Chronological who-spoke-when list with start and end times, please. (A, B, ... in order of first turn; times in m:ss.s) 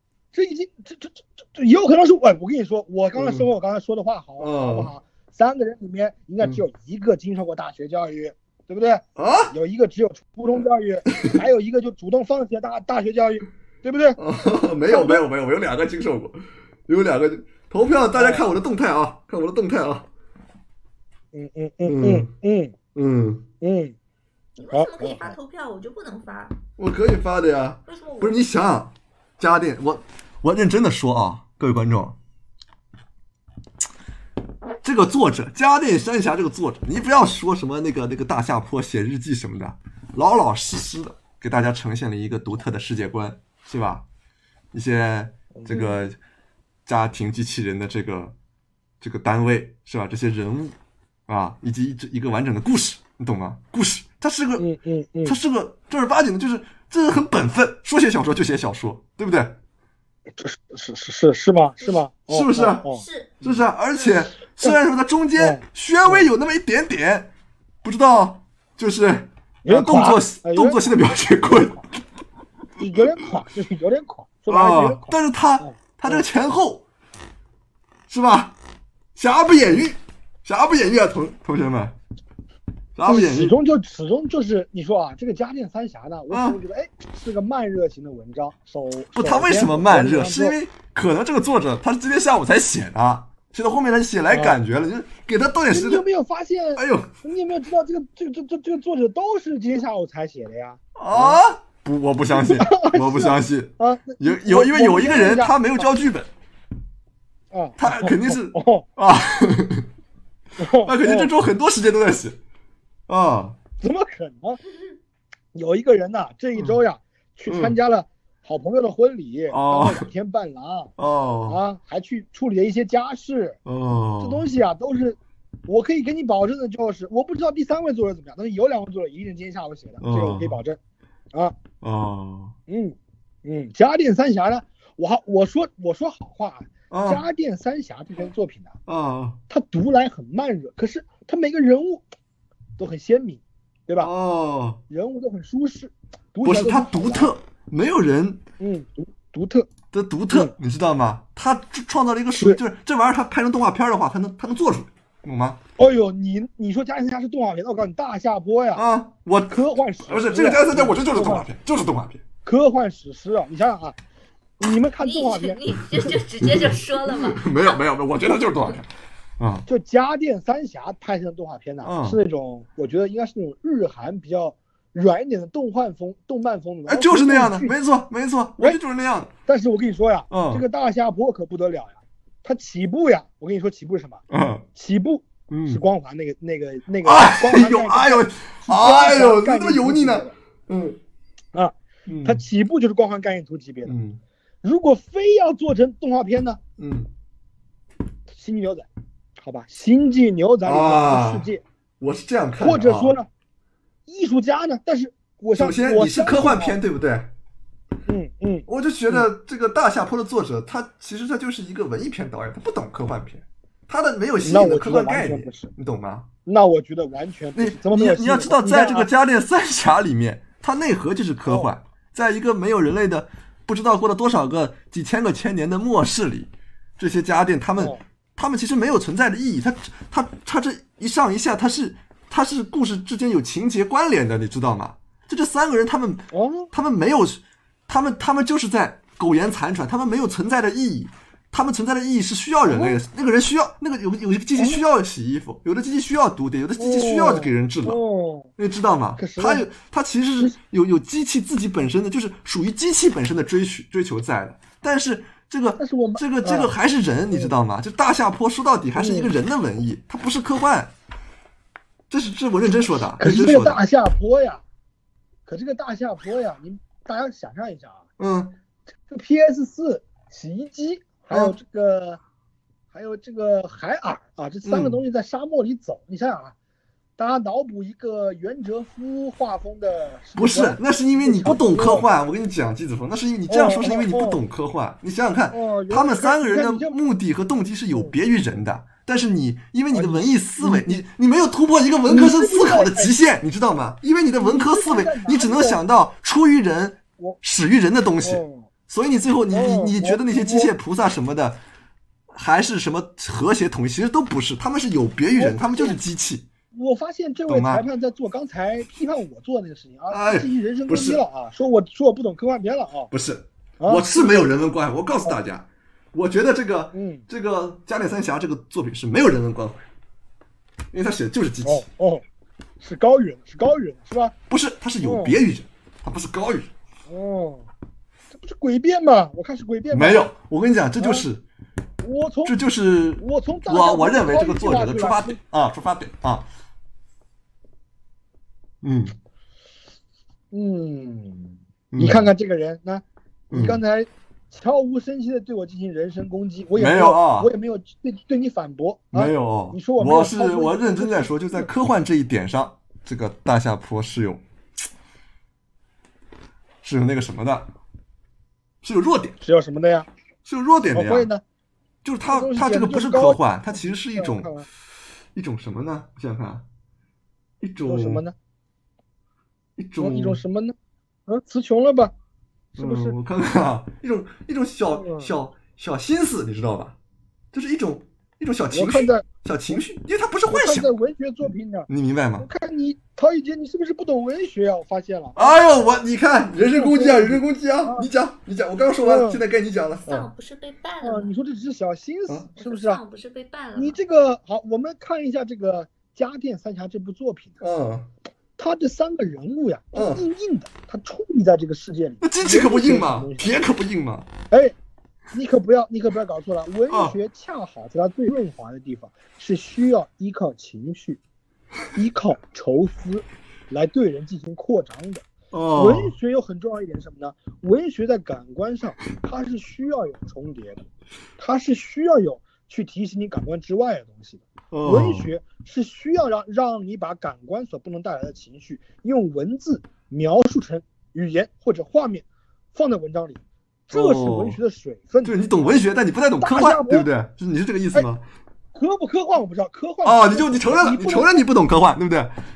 0:00.3-0:14.2 A
0:03.2-0:03.5 B
0:04.4-0:04.9 B
0:09.2-0:09.5 B
0:14.2-0:20.1 B
0:14.9-0:15.2 A
0:18.1-0:18.5 A
0:21.3-0:22.8 A
0:21.9-0:22.3 B
0:23.0-0:23.5 B
0:23.6-0:24.0 A
0:24.6-0:26.6 C
0:24.7-0:25.3 A
0:26.8-0:32.2 B
0:27.9-0:28.5 C
0:34.8-0:44.0 B
0:44.7-0:46.2 B
0:45.5-0:46.0 A
0:46.9-0:48.4 B
0:49.0-0:50.8 B
0:51.3-0:54.7 B
0:54.6-0:55.4 A
0:55.2-0:59.6 B
1:00.4-1:03.6 A
1:02.3-1:02.8 B
1:02.8-1:03.4 C
1:03.4-1:07.3 B
1:05.4-1:06.3 A
1:07.8-1:11.8 B
1:09.6-1:11.0 A
1:12.8-1:16.2 A
1:14.5-1:16.8 B
1:18.1-1:18.6 B
1:19.2-1:22.0 B
1:23.0-1:23.6 B
1:23.1-1:30.6 A
1:26.3-1:26.6 B
1:29.2-1:36.0 B
1:34.3-1:34.6 A
1:35.7-1:41.4 A
1:36.8-1:37.1 B
1:41.0-1:46.3 B
1:42.3-1:45.9 A
1:47.5-1:48.9 A
1:47.8-1:49.9 B
1:50.6-1:51.3 A
1:50.8-1:52.4 B
1:53.1-1:53.6 B
1:53.8-1:54.6 A
1:55.5-2:00.9 A
1:57.5-1:57.8 B
1:59.5-2:00.1 B
2:01.0-2:01.6 B
2:01.5-2:03.6 A
2:03.6-2:04.4 B
2:04.2-2:10.8 A
2:10.0-2:10.6 B
2:11.8-2:12.6 B
2:12.7-2:18.7 A
2:16.9-2:17.2 B
2:18.9-2:19.4 B
2:19.5-2:22.0 A
2:22.8-2:24.1 A
2:24.0-2:24.8 B
2:24.9-2:27.3 A
2:26.4-2:28.4 B
2:28.6-2:29.7 A
2:29.9-2:35.6 B
2:35.8-2:38.8 A
2:38.8-2:42.2 B
2:39.5-2:41.5 A
2:42.4-2:44.0 A
2:44.6-2:46.1 A
2:45.0-2:47.8 C
2:46.4-2:48.9 B
2:49.4-2:49.7 B
2:49.7-2:57.8 A
2:51.8-2:52.2 B
2:56.9-2:59.3 B
2:59.5-3:04.2 A
3:00.3-3:00.6 B
3:04.3-3:04.6 B
3:04.8-3:10.3 A
3:05.5-3:05.8 B
3:07.0-3:11.0 B
3:11.5-3:13.9 A
3:12.1-3:12.4 B
3:13.9-3:14.2 B
3:14.6-3:16.6 A
3:16.8-3:17.1 B
3:18.3-3:18.9 A
3:19.4-3:21.6 A
3:20.6-3:21.5 B
3:22.0-3:23.1 B
3:22.6-3:23.3 A
3:24.1-3:26.8 A
3:25.6-3:27.3 B
3:28.1-3:29.3 A
3:28.7-3:36.3 B
3:34.4-3:35.7 A
3:36.5-3:39.1 A
3:37.6-4:08.0 B
3:41.5-3:41.7 A
3:56.3-3:56.7 A
4:02.6-4:03.0 A
4:06.8-4:08.5 A
4:08.6-4:20.9 B
4:09.2-4:09.7 A
4:15.8-4:16.7 A
4:19.0-4:19.3 A
4:22.1-4:23.8 B
4:23.2-4:24.6 A
4:25.5-4:28.0 A
4:28.2-4:28.5 B
4:29.1-4:32.2 A
4:32.9-4:36.6 A
4:34.6-4:35.0 B
4:37.2-4:42.1 A
4:40.4-5:01.6 B
4:43.5-4:44.4 A
4:45.5-4:47.0 A
4:49.9-4:51.0 A
4:52.1-4:53.2 A
4:54.4-4:55.8 A
4:58.2-4:58.7 A
4:59.5-5:00.7 A
5:02.3-5:06.5 B
5:05.4-5:06.0 A
5:06.7-5:13.1 A
5:07.5-5:07.8 B
5:10.1-5:11.2 B
5:13.1-5:19.8 B
5:13.8-5:14.5 A
5:16.9-5:17.2 A
5:20.9-5:21.8 B
5:21.6-5:22.2 A
5:22.8-5:24.4 A
5:24.5-5:26.7 B
5:25.0-5:25.4 A
5:27.1-5:27.7 A
5:28.3-5:30.2 A
5:29.9-5:31.4 B
5:31.0-5:31.3 A
5:32.0-5:32.6 A
5:32.4-5:36.5 B
5:33.2-5:35.4 A
5:38.8-5:39.1 B
5:40.5-5:51.7 A
5:41.9-5:42.3 B
5:43.5-5:43.8 B
5:46.8-5:47.5 B
5:49.1-5:54.4 B
5:56.8-5:57.7 B
5:58.8-5:59.4 B
5:59.4-6:00.1 A
6:00.4-6:01.3 B
6:00.9-6:01.4 A
6:02.0-6:04.5 B
6:02.3-6:04.7 A
6:05.4-6:06.6 B
6:07.6-6:08.2 B
6:07.9-6:08.4 A
6:09.8-6:10.4 B
6:10.0-6:10.8 A
6:11.3-6:12.1 A
6:12.8-6:13.2 A
6:12.8-6:17.0 B
6:14.9-6:15.3 A
6:17.5-6:20.9 B
6:18.7-6:19.8 A
6:20.5-6:21.9 A
6:21.9-6:22.5 B
6:22.4-6:25.6 A
6:25.4-6:30.3 B
6:26.7-6:28.1 A
6:29.0-6:29.4 A
6:30.0-6:31.3 C
6:31.0-6:33.0 A
6:32.6-6:34.0 C
6:33.8-6:37.6 A
6:37.6-6:38.1 B
6:38.6-6:43.6 A
6:39.9-6:40.2 B
6:42.2-6:44.3 B
6:44.5-6:44.8 A
6:45.3-6:51.2 A
6:46.9-6:47.2 B
6:51.9-7:00.8 A
6:55.5-6:56.1 B
7:01.4-7:15.8 A
7:04.7-7:05.3 B
7:13.9-7:14.6 B
7:15.2-7:18.2 B
7:16.4-7:17.1 A
7:18.7-7:21.4 A
7:20.0-7:22.3 B